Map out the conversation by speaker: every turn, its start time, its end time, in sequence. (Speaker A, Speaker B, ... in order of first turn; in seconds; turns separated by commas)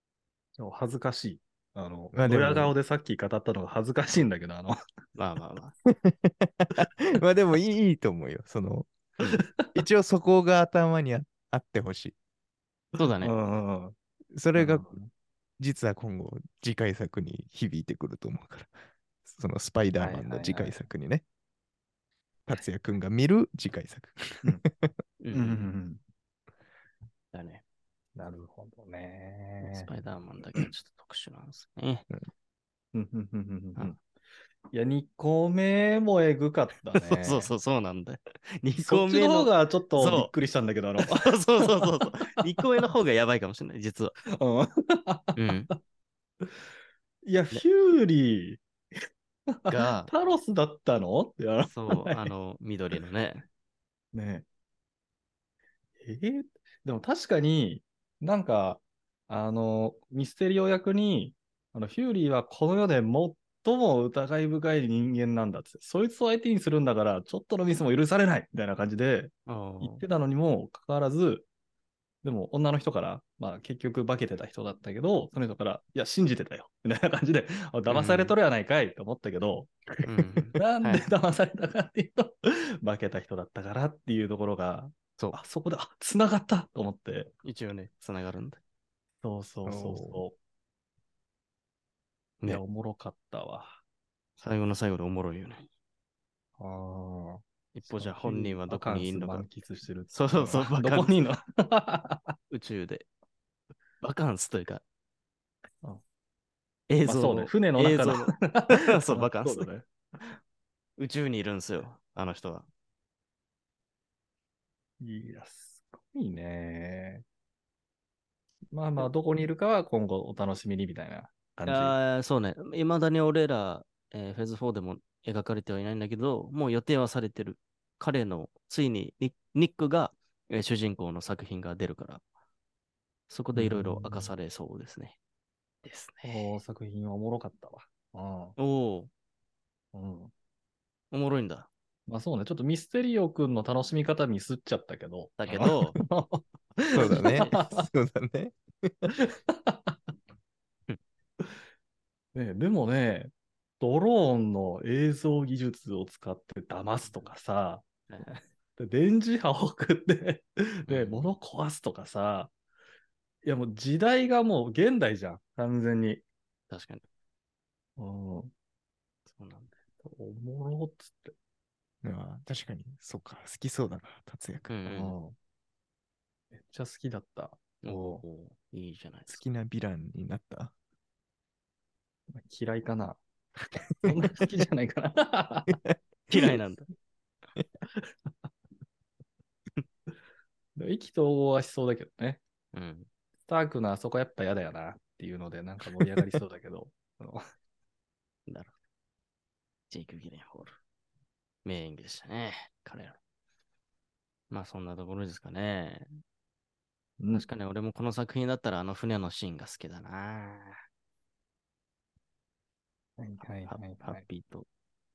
Speaker A: 0.6-4.7, Speaker B: 2.1-2.7, Speaker C: 5.2-5.7, Speaker B: 5.9-8.9, Speaker C: 9.2-9.4, Speaker A: 9.4-9.7, Speaker B: 9.7-12.2, Speaker C: 13.0-13.3, Speaker A: 13.2-13.9, Speaker B: 14.3-14.9, Speaker A: 14.5-15.1, Speaker B: 15.6-18.7, Speaker B: 19.2-21.2, Speaker A: 20.0-20.8, Speaker B: 22.4-24.9, Speaker C: 25.2-25.7, Speaker A: 25.3-26.0, Speaker C: 27.3-27.6, Speaker A: 28.1-29.9, Speaker C: 29.6-32.1, Speaker A: 32.9-34.0, Speaker A: 34.7-37.5, Speaker C: 36.9-40.3, Speaker A: 38.7-42.3, Speaker C: 41.0-44.1, Speaker A: 44.4-45.7, Speaker C: 45.4-45.7, Speaker A: 47.2-48.6, Speaker A: 49.5-52.3, Speaker C: 49.7-50.1, Speaker C: 51.7-53.5, Speaker A: 54.1-54.4, Speaker A: 56.0-71.5, Speaker C: 69.5-70.0, Speaker A: 72.2-87.3, Speaker C: 77.9-78.3, Speaker C: 80.0-81.1, Speaker C: 87.4-88.6, Speaker A: 89.2-90.4, Speaker B: 89.6-90.2, Speaker A: 92.5-93.8, Speaker C: 94.4-95.7, Speaker A: 96.6-102.3, Speaker C: 97.7-99.5, Speaker C: 100.1-101.2, Speaker C: 102.5-103.1, Speaker C: 104.0-104.8, Speaker C: 106.9-109.7, Speaker A: 107.0-109.8, Speaker C: 111.0-112.7, Speaker A: 115.0-117.2, Speaker A: 118.7-122.0, Speaker C: 121.7-132.2, Speaker C: 133.3-135.2, Speaker A: 133.5-134.3, Speaker C: 135.8-136.6, Speaker A: 136.2-138.6, Speaker C: 138.6-139.1, Speaker A: 139.9-140.3, Speaker C: 141.1-141.7, Speaker A: 142.1-147.9, Speaker C: 145.4-146.0, Speaker B: 145.5-145.8, Speaker B: 146.9-149.1, Speaker C: 147.1-147.5, Speaker A: 149.2-149.9, Speaker A: 152.3-162.5, Speaker C: 157.1-157.3, Speaker C: 160.9-161.3, Speaker A: 163.4-166.2, Speaker C: 166.7-167.0, Speaker A: 168.0-168.5, Speaker C: 169.3-169.7, Speaker A: 170.0-171.3, Speaker B: 172.0-174.7, Speaker C: 174.7-175.1, Speaker A: 174.8-175.3, Speaker A: 176.5-178.2, Speaker C: 177.8-179.4, Speaker B: 179.3-180.7, Speaker A: 182.3-183.2, Speaker A: 184.0-185.8, Speaker C: 186.3-186.9, Speaker A: 190.8-192.4, Speaker C: 192.7-193.1, Speaker A: 193.5-197.4, Speaker C: 198.5-198.7, Speaker C: 199.9-200.7, Speaker C: 201.6-203.2, Speaker C: 204.5-206.1, Speaker A: 207.2-207.5, Speaker C: 207.3-210.8, Speaker A: 213.2-214.2, Speaker C: 213.7-214.7